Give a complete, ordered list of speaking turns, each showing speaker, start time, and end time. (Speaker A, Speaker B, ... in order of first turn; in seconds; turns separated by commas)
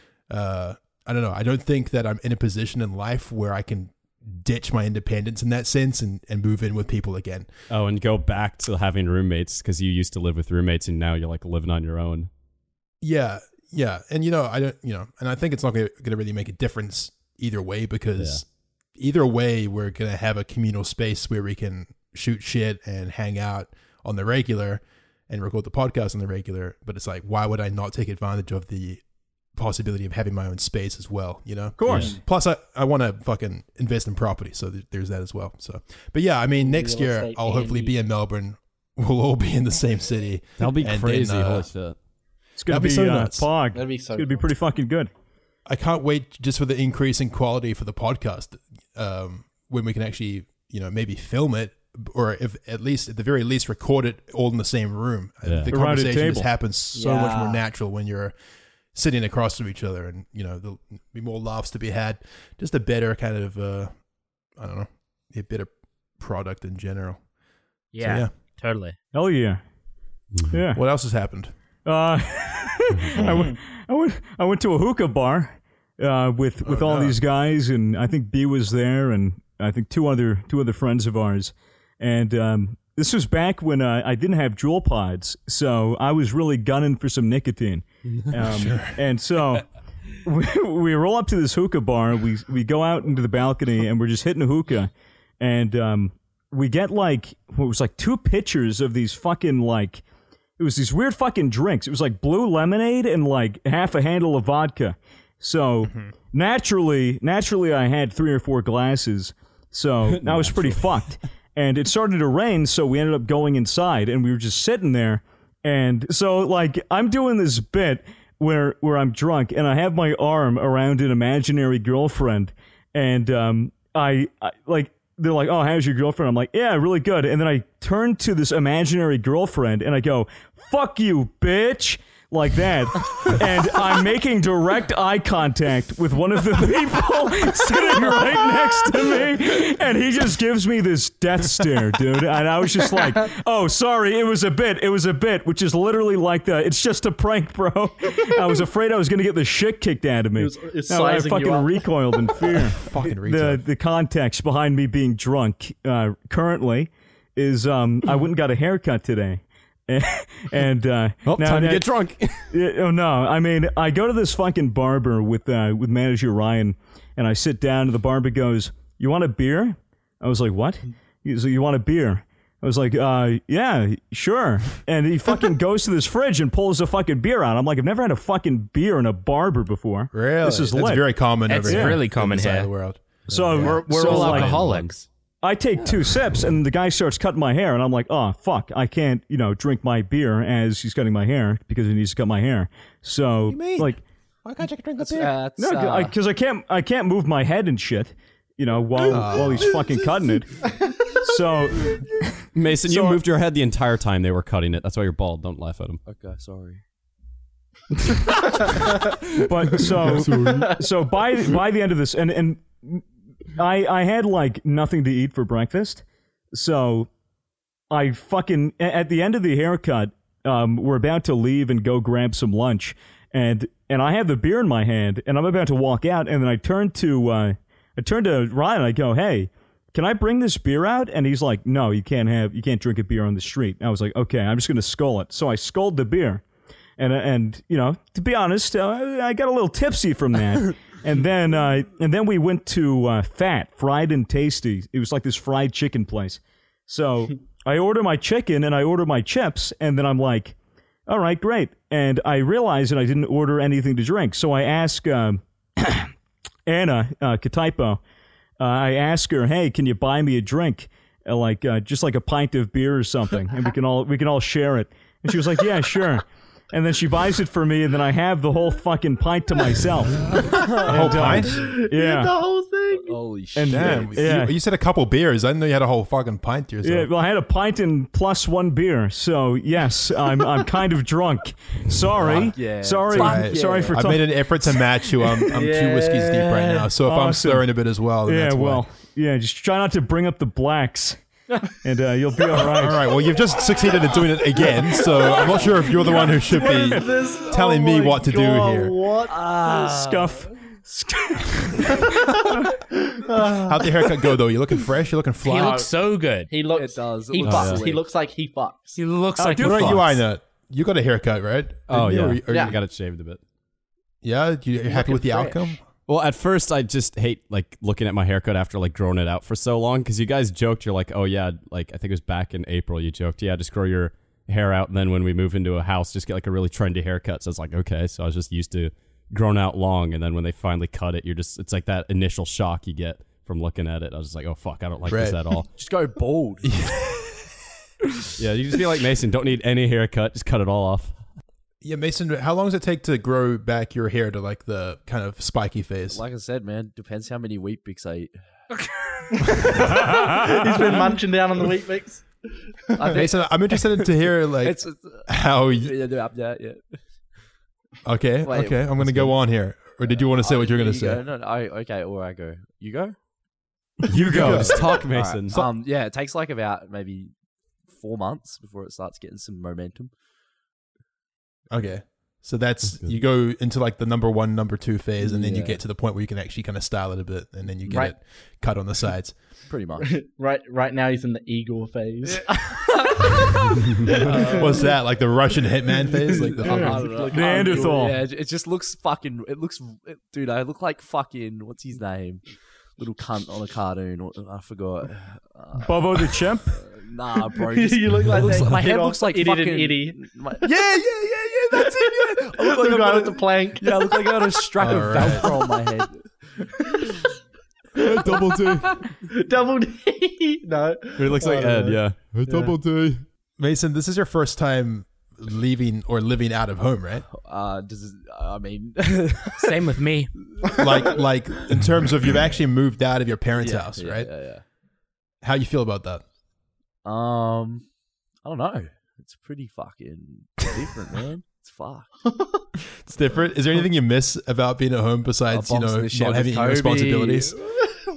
Speaker A: 0.3-7.5, Speaker B: 7.7-12.3, Speaker A: 13.0-18.4, Speaker A: 18.9-41.7, Speaker C: 31.8-32.2, Speaker D: 36.6-38.0, Speaker B: 40.6-42.0, Speaker C: 42.6-45.1, Speaker A: 42.7-43.5, Speaker D: 43.7-44.3, Speaker A: 45.7-58.3, Speaker B: 55.4-55.7, Speaker C: 55.7-56.5, Speaker D: 56.9-57.6, Speaker A: 58.9-64.0, Speaker A: 64.5-67.2, Speaker E: 67.9-69.0, Speaker A: 68.0-68.3, Speaker C: 69.1-69.6, Speaker C: 70.5-70.8, Speaker A: 70.7-71.5, Speaker C: 71.8-89.6, Speaker A: 76.6-77.2, Speaker A: 88.4-89.0, Speaker C: 90.2-100.0, Speaker C: 100.6-161.8, Speaker B: 110.2-110.8, Speaker D: 150.3-151.9, Speaker A: 152.6-153.6, Speaker B: 161.2-162.5, Speaker C: 162.5-181.1, Speaker A: 180.1-183.8, Speaker E: 181.5-182.7, Speaker C: 181.7-182.0, Speaker C: 183.3-184.6, Speaker B: 183.3-184.9, Speaker E: 183.6-185.1, Speaker C: 185.4-194.0, Speaker A: 193.5-195.3, Speaker F: 195.0-196.1, Speaker C: 195.6-202.3, Speaker A: 199.1-199.9, Speaker B: 202.5-206.0, Speaker C: 202.8-203.2, Speaker F: 206.0-206.8, Speaker C: 209.4-216.0, Speaker D: 210.3-210.7, Speaker C: 216.5-217.1, Speaker C: 217.9-236.4, Speaker C: 237.0-250.5, Speaker C: 251.1-256.1, Speaker C: 256.6-258.0, Speaker C: 258.6-272.3, Speaker D: 270.5-273.2, Speaker A: 270.7-271.7, Speaker F: 273.0-274.1, Speaker C: 273.5-274.6, Speaker A: 273.7-277.1, Speaker C: 276.8-284.3, Speaker F: 282.2-284.2, Speaker A: 283.1-288.8, Speaker D: 285.5-286.9, Speaker C: 287.0-293.0, Speaker A: 292.6-298.9, Speaker D: 294.6-299.4, Speaker F: 299.3-300.5, Speaker C: 299.6-302.1, Speaker D: 302.2-304.3, Speaker A: 303.4-305.9, Speaker E: 305.4-306.5, Speaker D: 306.5-309.0, Speaker F: 306.7-308.1, Speaker B: 307.4-307.8, Speaker E: 308.9-310.2, Speaker C: 309.4-310.2, Speaker A: 309.6-312.8, Speaker B: 311.9-313.4, Speaker D: 312.5-312.8, Speaker A: 314.2-315.8, Speaker F: 314.9-315.8, Speaker B: 316.1-335.7, Speaker A: 335.1-335.4, Speaker F: 335.7-336.7, Speaker A: 336.6-337.4, Speaker B: 338.4-341.2, Speaker A: 341.8-346.2, Speaker F: 346.1-348.4, Speaker E: 348.7-349.4, Speaker D: 349.3-353.2, Speaker F: 349.8-350.1, Speaker F: 352.9-357.0, Speaker A: 353.1-355.9, Speaker A: 358.0-361.2, Speaker F: 358.4-359.4, Speaker F: 360.0-363.2, Speaker B: 364.1-365.5, Speaker F: 364.1-367.3, Speaker A: 364.3-365.0, Speaker F: 367.8-370.1, Speaker A: 371.7-379.6, Speaker F: 375.2-375.8, Speaker D: 377.9-378.1, Speaker F: 379.7-380.2, Speaker D: 380.1-384.9, Speaker F: 382.2-383.3, Speaker F: 384.2-384.9, Speaker A: 384.3-387.1, Speaker F: 386.1-392.4, Speaker D: 386.2-388.1, Speaker C: 387.3-388.2, Speaker F: 392.9-406.4, Speaker C: 395.8-396.8, Speaker D: 397.6-400.2, Speaker D: 401.7-404.6, Speaker A: 404.8-405.5, Speaker D: 406.8-407.1, Speaker D: 408.0-408.5, Speaker B: 408.0-409.0, Speaker F: 408.6-409.0, Speaker D: 409.2-412.7, Speaker B: 411.2-413.2, Speaker A: 413.6-417.3, Speaker F: 417.3-419.8, Speaker E: 419.6-420.3, Speaker F: 420.4-421.1, Speaker A: 420.7-424.3, Speaker F: 423.5-424.6, Speaker A: 425.4-426.2, Speaker F: 427.0-427.9, Speaker F: 428.4-432.1, Speaker D: 432.3-432.6, Speaker A: 433.0-437.6, Speaker F: 435.5-437.8